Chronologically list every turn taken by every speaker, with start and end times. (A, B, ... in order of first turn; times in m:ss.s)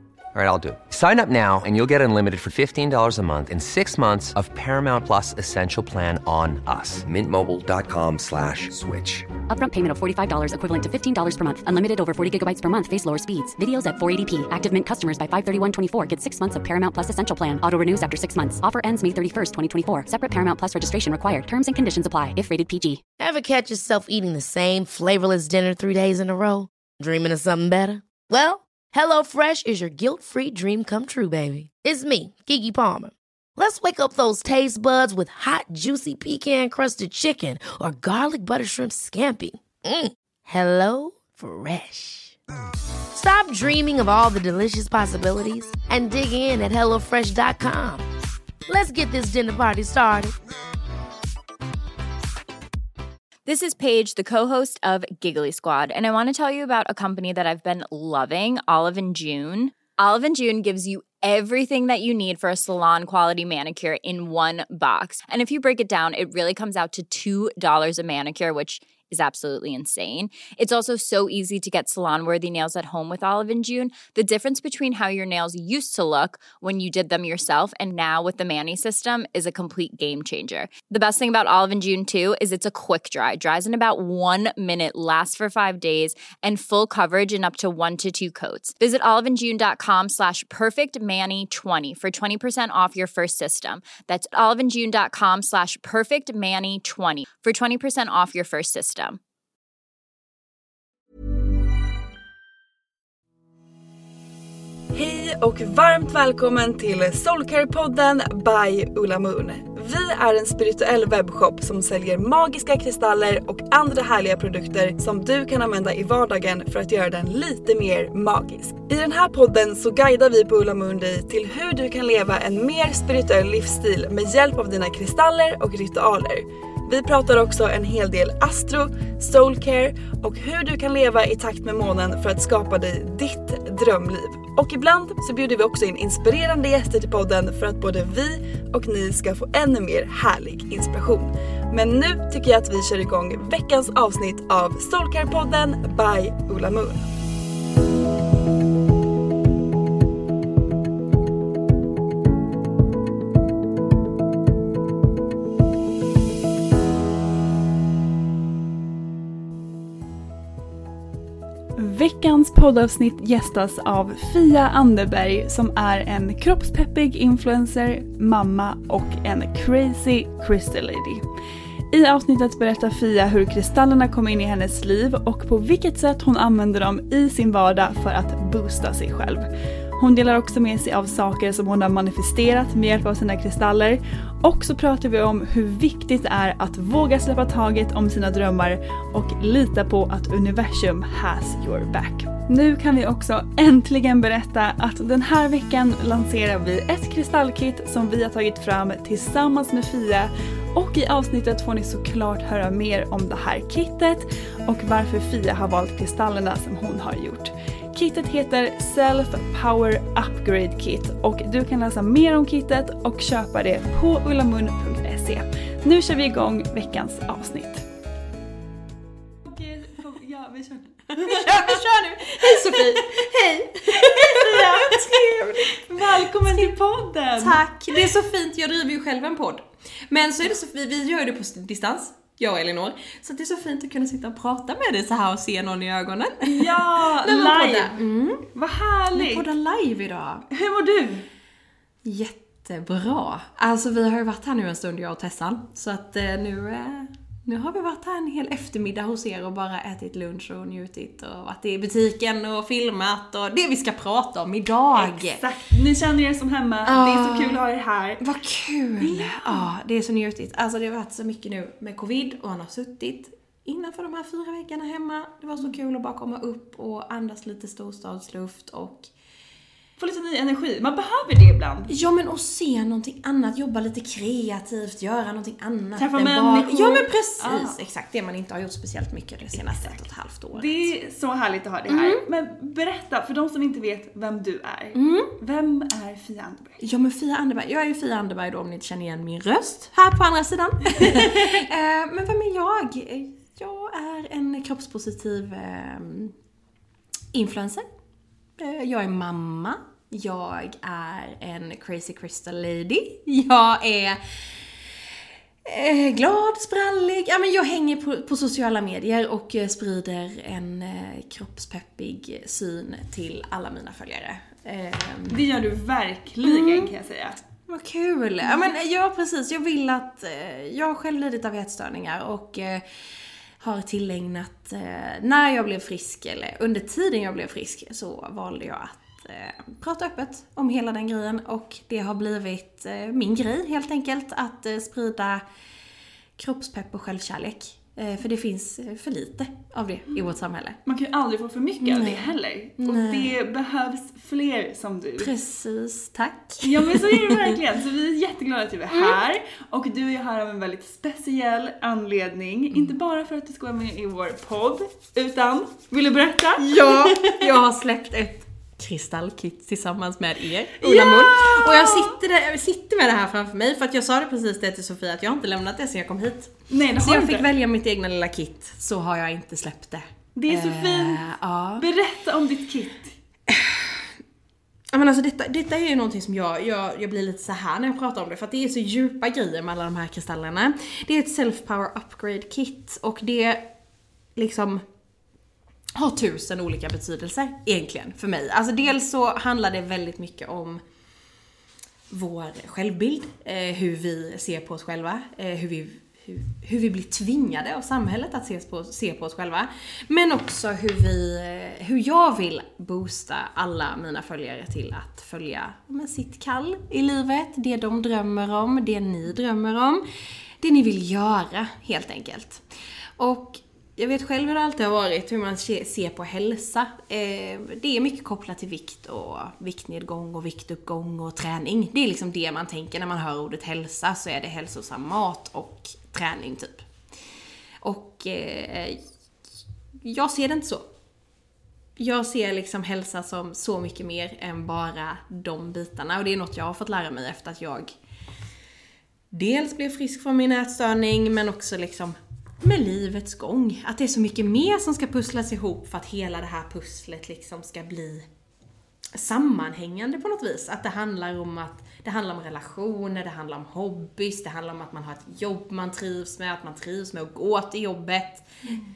0:00.3-0:09.3 A
0:09.5-0:23.0 B
0:23.2-0:42.4 C
0:43.1-0:48.0 C
0:48.7-0:50.3 C
0:53.4-1:39.2 D
1:44.9-2:27.0 E
2:41.8-2:51.2 E
2:51.9-3:37.9 E
3:39.4-3:41.8 E
3:41.2-3:46.7 F
3:42.4-3:43.1 E
3:43.9-3:48.1 E
3:47.4-3:58.4 F
3:56.4-3:58.0 E
3:58.5-3:59.4 E
3:59.1-4:00.4 F
4:00.5-4:01.3 E
4:02.0-4:15.5 F
4:15.0-4:18.2 E
4:16.8-4:17.6 F
4:18.2-4:29.1 F
4:19.0-4:19.7 E
4:30.0-4:31.9 E
4:31.9-4:40.9 F
4:36.0-4:37.8 E
4:39.5-4:46.8 E
4:41.9-4:42.2 F
4:44.9-4:45.3 F
4:46.8-4:56.3 F
4:51.0-4:51.6 E
4:57.3-4:57.8 F
4:58.6-5:05.1 F
5:05.6-5:15.4 F
5:15.3-5:17.5 E
5:16.4-5:16.9 F
5:17.7-5:23.0 F
5:23.6-5:35.4 F
5:36.4-5:40.8 F
5:40.8-5:45.3 E
5:41.8-5:43.4 F
5:45.2-5:47.6 F
5:46.6-5:57.5 E
5:48.9-5:49.2 F
5:56.6-6:11.9 F
6:00.8-6:02.2 E
6:06.7-6:07.5 E
6:10.4-6:11.2 E
6:11.8-6:13.1 E
6:13.5-6:14.1 F
6:14.9-6:23.7 F
6:24.4-6:24.8 F
6:26.0-6:30.8 F
6:32.1-6:50.0 F
6:50.6-6:52.6 F
6:53.2-7:06.8 F
7:07.8-7:09.0 F
7:10.0-7:10.9 F
7:12.0-7:17.9 F
7:19.3-7:28.3 F
7:29.1-7:38.5 F